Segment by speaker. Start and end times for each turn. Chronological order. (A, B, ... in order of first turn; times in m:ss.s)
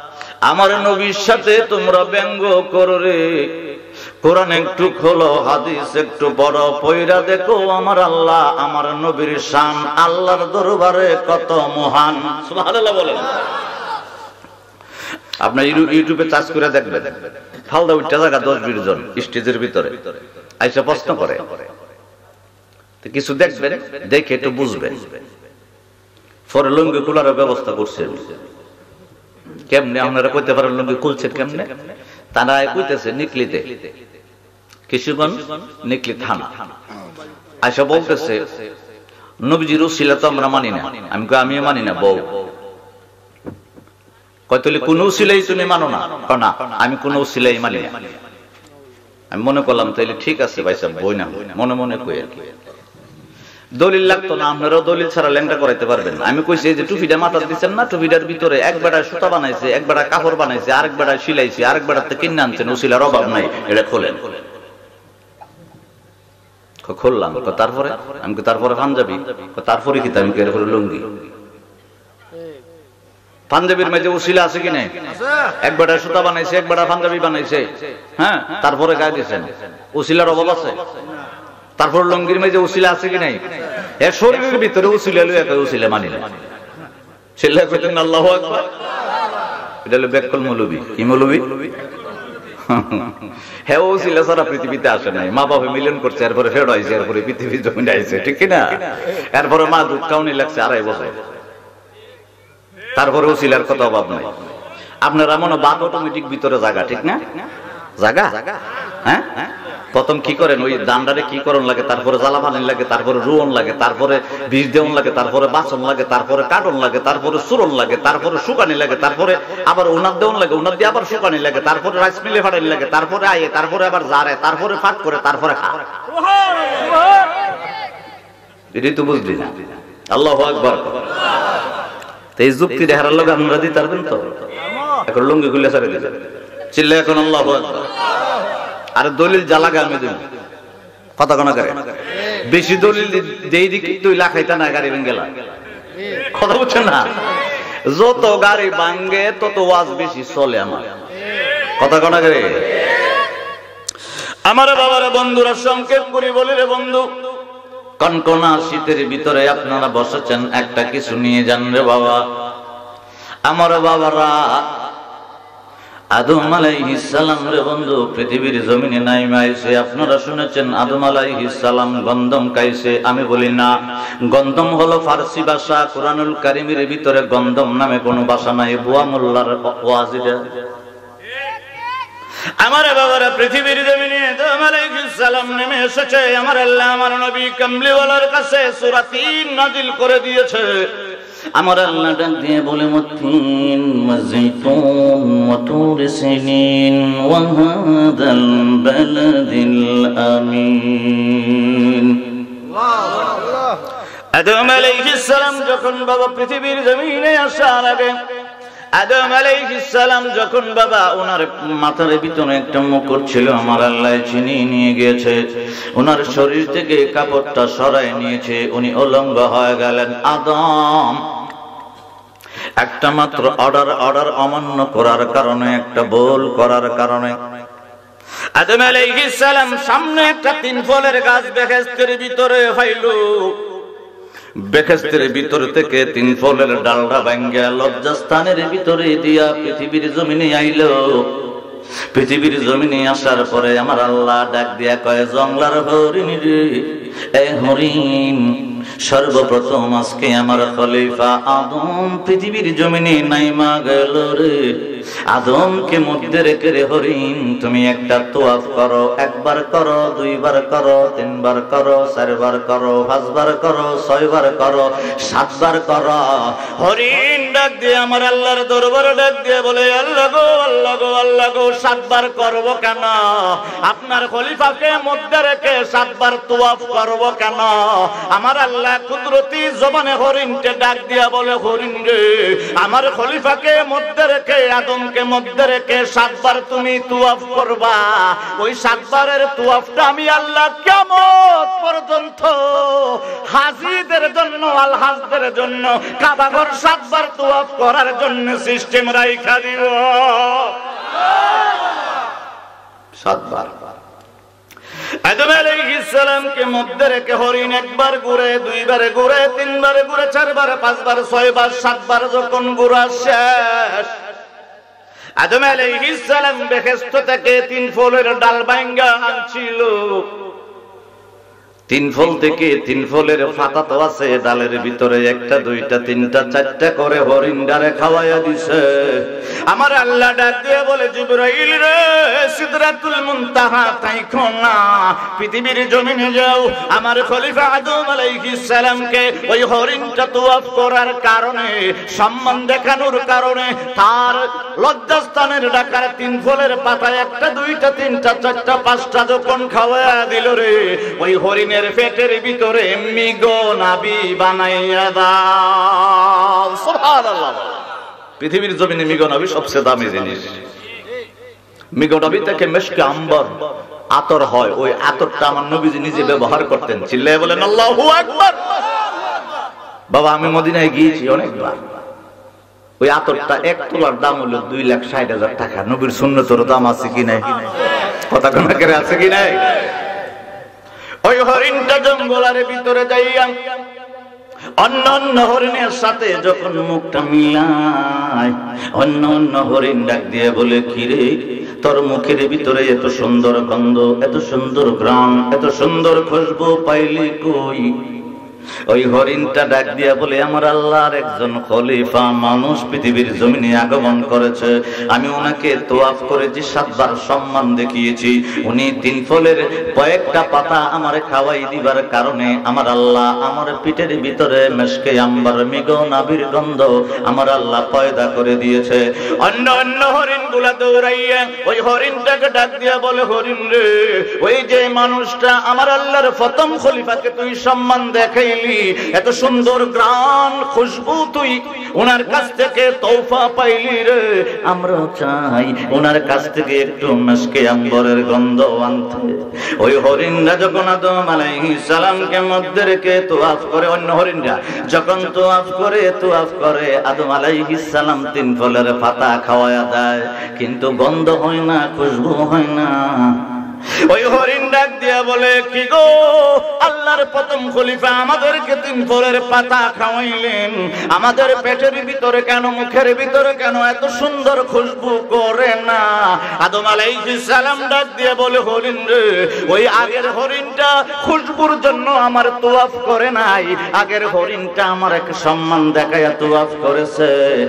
0:00.5-0:03.2 A
0:04.2-0:13.2 A
0:15.4-0:17.2 A
0:17.7-0:20.0 A
0:20.6-0:21.6 A
0:23.0-0:25.0 A
0:26.5-0:28.3 A
0:29.7-0:31.7 A
0:32.3-0:33.9 A
0:34.9-0:36.5 A
0:37.6-0:38.5 A
0:39.4-0:42.3 A
0:44.5-0:48.0 A
0:49.3-0:52.5 A
0:53.8-1:04.3 A
1:06.9-1:11.2 A
1:13.5-1:14.9 A
1:15.6-1:20.8 A
1:21.8-1:23.4 A
1:24.0-1:26.3 A
1:27.4-1:28.7 A
1:29.8-1:31.7 A
1:32.7-1:33.1 A
1:33.7-1:41.2 A
1:43.0-1:44.3 A
1:45.0-1:47.2 A
1:48.0-1:48.4 A
1:49.0-2:05.8 A
2:08.7-2:11.0 A
2:12.4-2:14.2 A
2:15.1-2:17.9 A
2:19.0-2:20.2 A
2:21.2-2:25.3 A
2:26.3-2:27.1 A
2:27.9-2:30.9 A
2:31.8-2:32.5 A
2:34.5-2:37.1 A
2:38.0-2:42.2 A
2:43.5-2:44.6 A
2:46.2-2:53.7 A
2:54.3-3:00.4 A
3:02.6-3:10.9 A
3:11.6-3:22.4 A
3:24.3-3:28.2 A
3:29.0-3:35.4 A
3:36.0-3:41.2 A
3:42.8-3:47.4 A
3:48.6-3:53.5 A
3:54.7-4:01.2 A
4:02.1-4:14.6 A
4:15.3-5:00.7 A
5:03.2-5:03.8 A
5:05.2-5:14.1 A
5:15.4-5:20.2 A
5:21.9-5:57.7 A
5:58.4-6:00.6 A
6:02.0-6:03.5 A
6:04.1-6:08.6 A
6:10.1-6:11.8 A
6:13.0-6:17.5 A
6:18.3-6:19.6 A
6:21.2-6:23.5 A
6:24.8-6:37.9 A
6:38.9-7:33.3 A
7:34.1-7:57.3 A